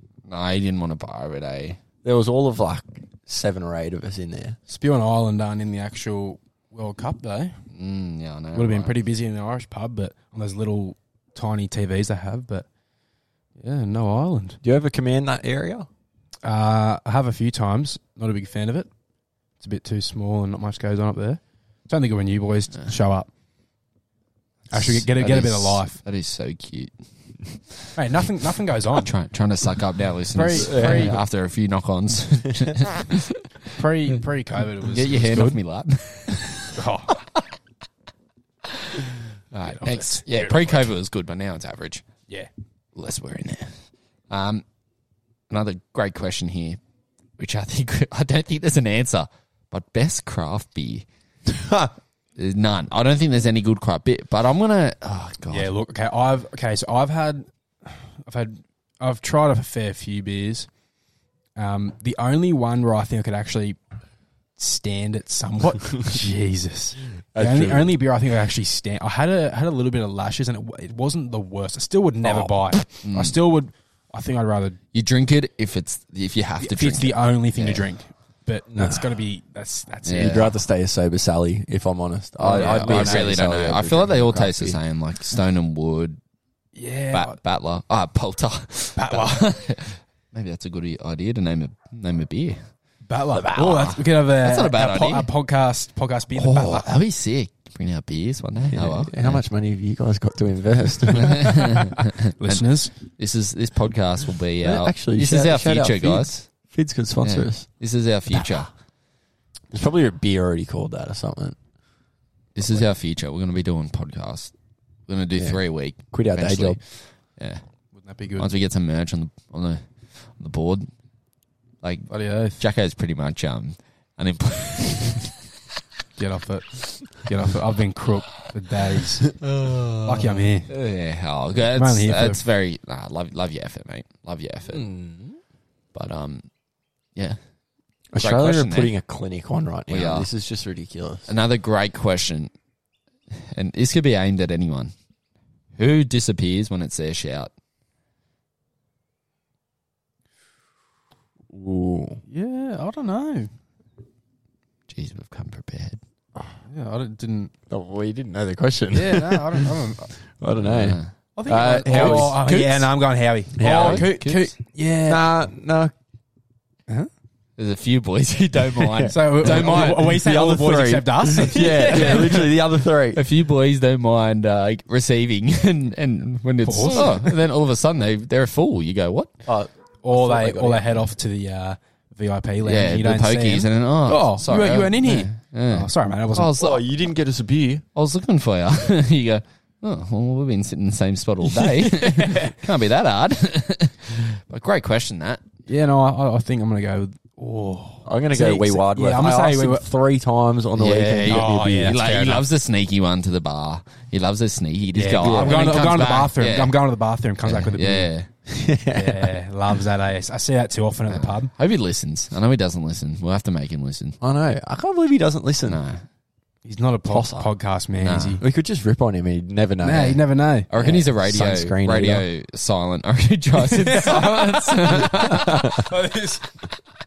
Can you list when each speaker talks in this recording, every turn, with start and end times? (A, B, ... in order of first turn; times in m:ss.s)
0:00.3-0:01.8 A
0:02.0-0:04.6 B
0:04.7-0:07.6 C
0:07.7-0:09.0 A
0:08.5-0:12.7 C
0:13.6-0:14.6 C
0:14.6-0:15.9 B
0:16.4-0:18.9 C
0:19.6-0:23.3 C
0:24.7-0:26.0 C
0:24.7-0:26.9 A
0:27.5-0:27.9 A
0:28.0-0:29.1 C
0:28.9-0:33.7 A
0:30.3-0:31.2 C
0:30.6-0:31.2 B
0:33.8-0:35.6 C
0:34.8-0:36.8 A
0:36.6-0:37.2 C
0:38.6-0:42.1 A
0:39.7-0:40.8 C
0:43.0-0:43.8 A
0:44.3-0:44.6 A
0:45.5-0:46.8 A
0:47.4-0:51.1 A
0:51.5-0:51.9 B
0:52.4-0:55.7 A
0:55.5-1:00.7 C
1:01.6-1:03.8 C
1:04.6-1:14.8 C
1:07.3-1:07.9 B
1:13.0-1:13.4 A
1:14.9-1:17.8 A
1:16.6-1:20.5 C
1:18.8-1:19.0 B
1:20.0-1:20.5 A
1:20.1-1:24.8 B
1:22.4-1:26.2 A
1:22.4-1:23.3 C
1:26.8-1:27.4 C
1:27.1-1:32.6 A
1:29.0-1:29.5 C
1:33.1-1:36.9 C
1:33.3-1:35.3 A
1:36.3-1:39.4 A
1:38.7-1:41.7 B
1:41.2-1:46.5 A
1:42.4-1:42.9 C
1:44.6-1:47.7 B
1:47.2-1:48.7 A
1:49.7-1:51.6 B
1:52.6-1:54.5 A
1:55.1-1:57.6 A
1:56.1-1:56.8 B
1:57.9-1:58.5 C
1:58.4-2:00.9 A
2:01.8-2:05.4 A
2:02.1-2:02.6 C
2:06.2-2:09.4 C
2:09.4-2:14.8 A
2:10.0-2:10.7 C
2:11.6-2:12.4 C
2:14.7-2:15.4 B
2:15.9-2:16.5 A
2:18.1-2:21.3 B
2:18.2-2:18.9 A
2:19.9-2:20.3 A
2:21.3-2:22.5 A
2:23.3-2:24.9 A
2:25.8-2:27.5 A
2:31.5-2:32.2 B
2:32.3-2:33.5 C
2:34.9-2:36.0 A
2:36.6-2:37.5 C
2:37.7-2:39.7 B
2:38.9-2:40.1 C
2:40.3-2:42.4 B
2:40.6-2:41.1 A
2:41.4-2:45.3 C
2:41.9-2:42.9 A
2:43.6-2:44.1 B
2:43.6-2:44.5 A
2:45.1-2:45.9 B
2:47.6-2:50.1 A
2:48.8-2:53.2 B
2:49.1-2:52.5 C
2:51.6-2:52.5 A
2:53.1-2:59.3 A
2:56.6-2:57.2 C
2:59.5-3:01.0 B
3:00.0-3:06.6 C
3:02.6-3:06.8 A
3:06.6-3:07.8 B
3:08.0-3:15.4 A
3:11.6-3:12.6 C
3:15.7-3:19.8 C
3:18.0-3:22.0 B
3:20.8-3:26.7 A
3:21.2-3:22.4 C
3:24.9-3:28.1 C
3:25.2-3:25.6 B
3:27.4-3:28.3 A
3:28.5-3:29.3 B
3:28.9-3:31.5 C
3:31.1-3:34.2 A
3:34.2-3:35.8 B
3:35.7-3:36.0 A
3:36.6-3:38.4 C
3:37.1-3:37.5 B
3:38.0-3:38.4 A
3:38.4-3:40.2 B
3:39.8-3:40.7 C
3:40.7-3:45.7 A
3:40.8-3:42.2 B
3:43.6-3:46.6 C
3:45.2-3:45.9 B